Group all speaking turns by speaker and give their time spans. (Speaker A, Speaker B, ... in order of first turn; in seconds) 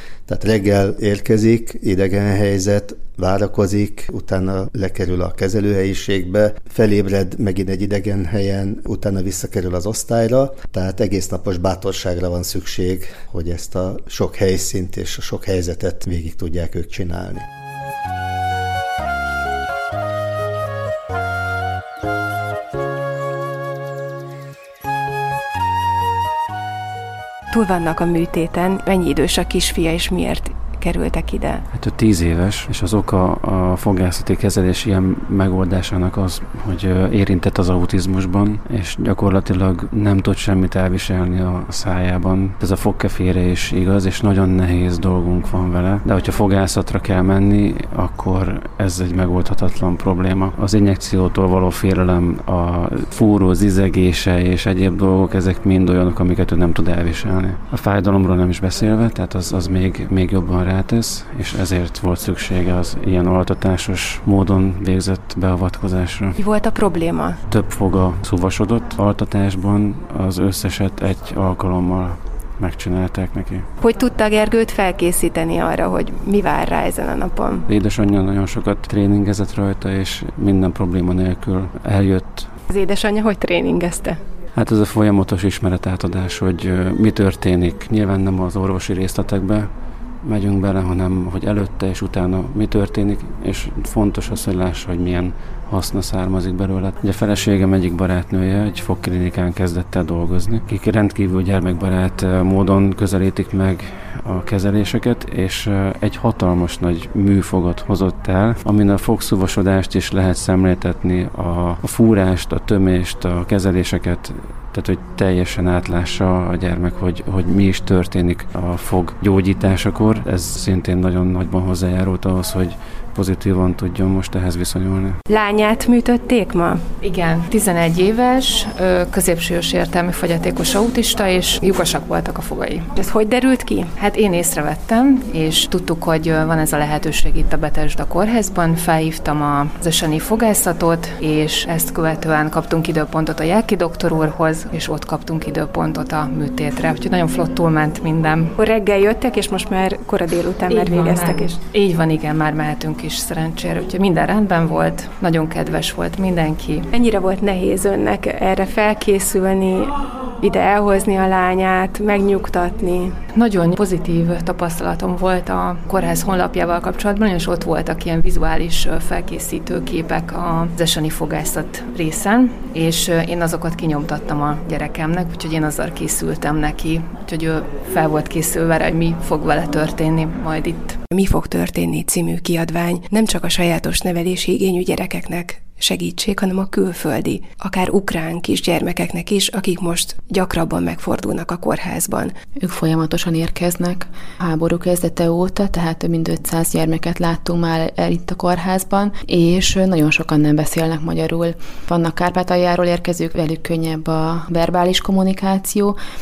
Speaker A: 0.3-17.5
Speaker B: 27.5-31.6, 66.4-67.4, 73.8-77.7, 82.7-84.2, 125.3-126.8, 132.9-133.9, 148.6-151.6, 156.9-163.2, 181.1-192.3
Speaker C: 31.7-66.4, 67.5-73.7, 77.7-82.5, 84.5-89.7, 90.2-125.2
Speaker D: 127.0-132.9, 134.0-148.5, 150.7-156.9, 163.3-181.0
Speaker E: 192.6-206.0